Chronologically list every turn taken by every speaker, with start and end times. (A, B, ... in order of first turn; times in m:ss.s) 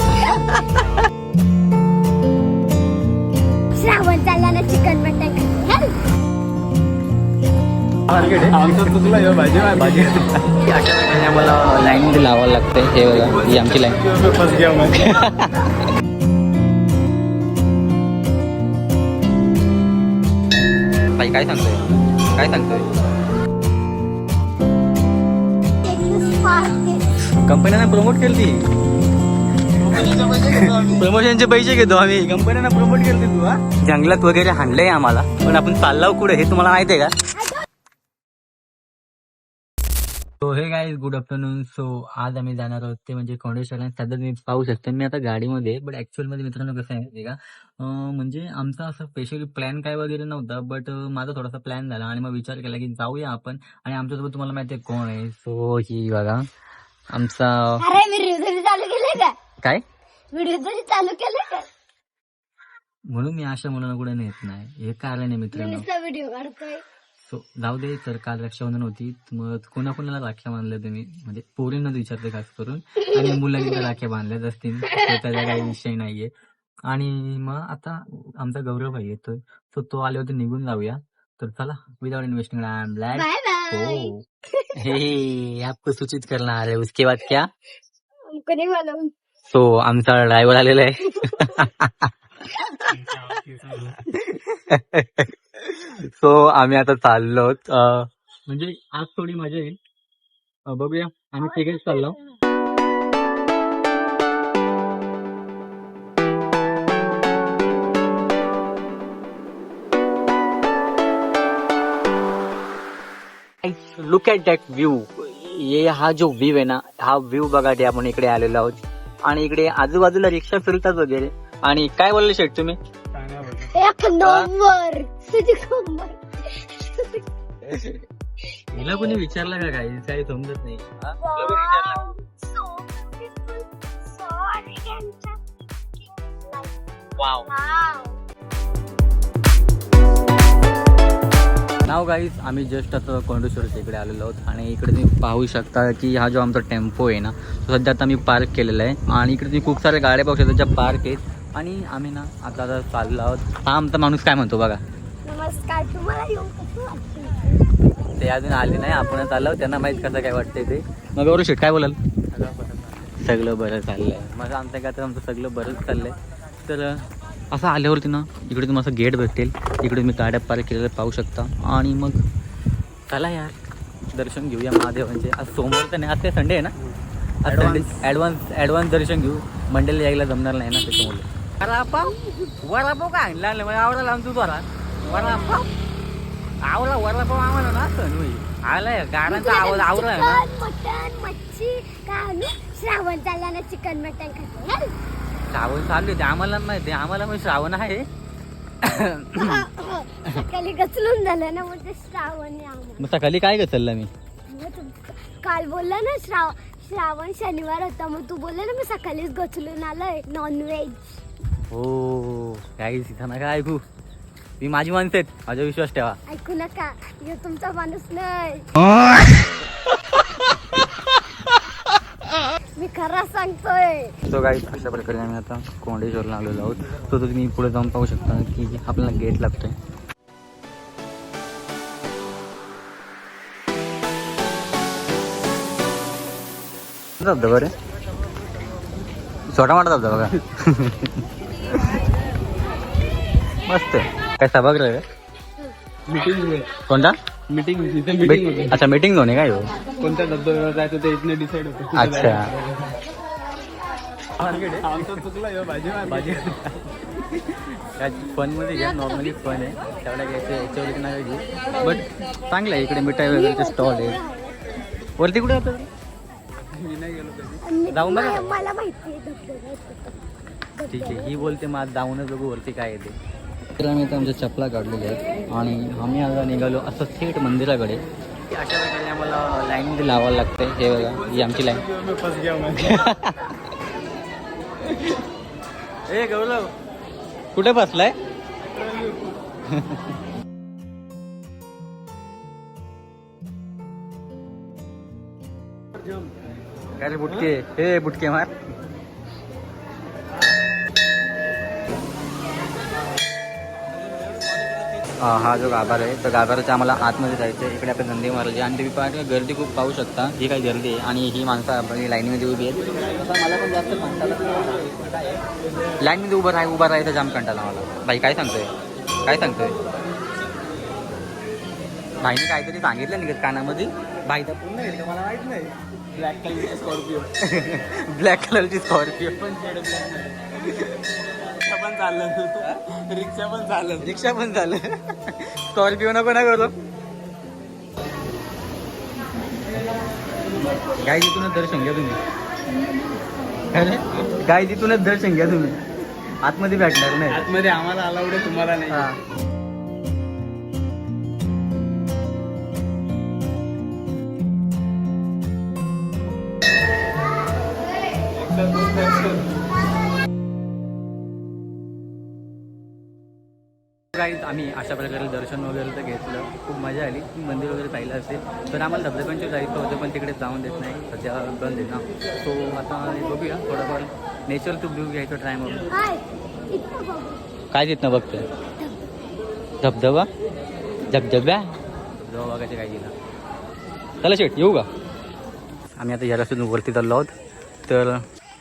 0:00.2-0:00.8 A
0:03.7-0:06.0 B
0:08.1-0:08.8 A
0:08.3-0:10.3 C
0:09.8-0:14.1 A
0:13.5-0:15.1 C
0:14.9-0:15.8 A
0:21.1-0:22.9 A
0:25.8-0:27.1 B
0:27.4-0:28.7 A
0:29.6-0:37.1 A
0:37.3-0:37.6 B
0:40.4-0:56.4 A
0:57.1-0:57.9 A
0:57.8-0:59.4 B
1:00.3-1:01.7 B
1:03.1-1:05.8 A
1:05.5-1:06.8 B
1:07.2-1:16.3 A
1:13.1-1:13.6 B
1:14.9-1:15.7 B
1:16.9-1:24.2 A
1:23.1-1:25.0 B
1:24.7-1:27.5 A
1:28.3-1:29.1 B
1:29.5-1:32.7 A
1:31.2-1:31.7 B
1:32.9-1:34.0 C
1:34.0-1:39.8 A
1:40.6-1:42.2 A
1:41.6-1:42.2 B
1:53.6-2:02.8 A
2:03.1-2:03.7 C
2:03.7-2:07.2 B
2:04.2-2:04.5 A
2:07.6-2:08.0 A
2:08.6-2:09.2 B
2:08.7-2:12.1 A
2:11.2-2:18.2 B
2:17.2-2:17.5 A
2:21.8-2:34.8 A
2:35.2-2:37.5 B
2:38.0-2:52.2 A
2:53.1-2:53.6 A
2:54.1-2:56.8 A
2:57.4-3:05.7 A
3:02.1-3:02.5 B
3:05.1-3:05.6 B
3:06.6-3:10.4 A
3:09.3-3:14.9 B
3:15.5-3:18.1 A
3:18.8-3:19.7 A
3:19.4-3:23.1 B
3:23.0-3:24.1 A
3:24.5-3:31.2 B
3:31.7-3:33.8 A
3:34.6-3:36.2 A
3:36.3-3:38.7 B
3:38.8-3:39.2 A
3:42.8-3:44.2 B
3:44.3-3:49.8 A
3:57.2-3:57.7 A
3:59.5-4:02.0 A
4:03.6-4:05.0 A
4:06.1-4:06.7 C
4:06.9-4:07.2 A
4:07.5-4:08.8 C
4:08.2-4:09.7 A
4:10.0-4:12.9 C
4:11.9-4:12.5 A
4:14.4-4:15.2 A
4:14.6-4:16.6 C
4:16.0-4:24.2 A
4:23.2-4:24.7 B
4:25.2-4:25.9 A
4:26.5-4:27.6 C
4:27.6-4:30.2 B
4:27.9-4:28.6 A
4:30.7-4:31.6 B
4:30.9-4:33.2 A
4:33.8-4:41.9 A
4:41.4-4:43.0 C
4:42.8-4:43.6 A
4:46.1-4:46.7 A
4:47.5-4:48.2 A
4:49.6-4:50.1 A
4:57.0-4:58.5 A
5:05.2-5:15.4 A
5:16.0-5:18.7 A
5:19.2-5:19.8 A
5:22.2-5:25.7 A
5:26.1-5:27.3 C
5:27.4-5:30.2 A
5:29.7-5:30.9 C
5:31.4-5:34.1 C
5:34.0-5:36.7 A
5:40.9-5:42.2 A
5:43.7-5:45.8 A
5:46.4-5:47.5 A
5:47.3-5:49.1 C
5:48.9-5:49.2 A
5:58.6-5:59.3 C
6:04.1-6:15.9 A
6:15.9-6:17.4 B
6:17.7-6:18.4 A
6:18.8-6:19.1 B
6:19.8-6:20.3 A
6:21.1-6:23.1 A
6:24.2-6:24.9 A
6:26.0-6:27.3 A
6:27.9-6:28.2 A